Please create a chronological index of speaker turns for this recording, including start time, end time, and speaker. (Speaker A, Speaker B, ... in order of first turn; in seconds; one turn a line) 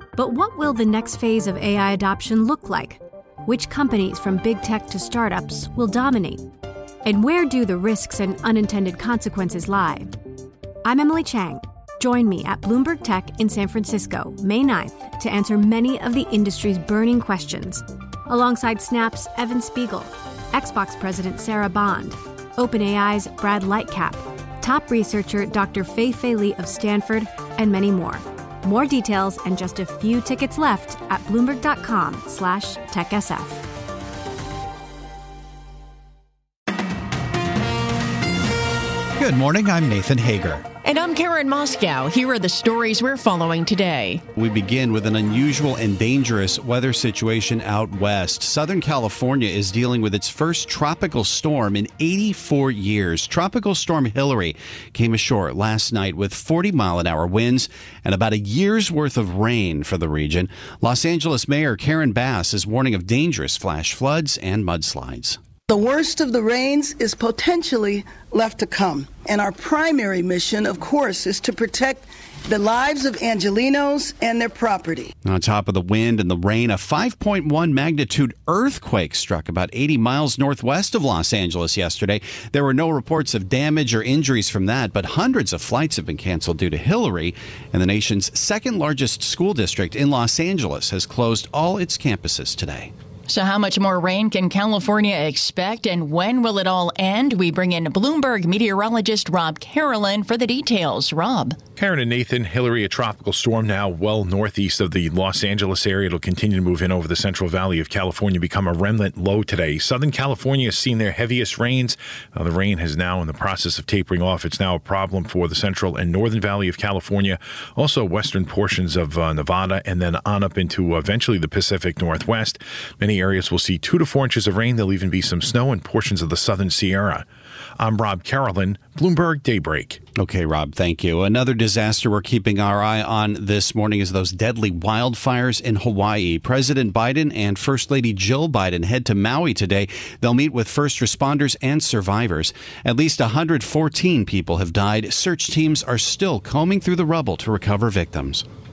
Speaker A: 0.2-6.5
Speaker A: 7.0-10.1
Speaker A: 10.8-33.6
Speaker B: 39.2-40.7
Speaker B: 44.3-65.4
Speaker C: 65.7-75.1
Speaker B: 75.2-92.9
Speaker D: 93.3-101.6
Speaker E: 101.8-127.2
Speaker E: 127.8-130.0
Speaker B: 130.2-148.4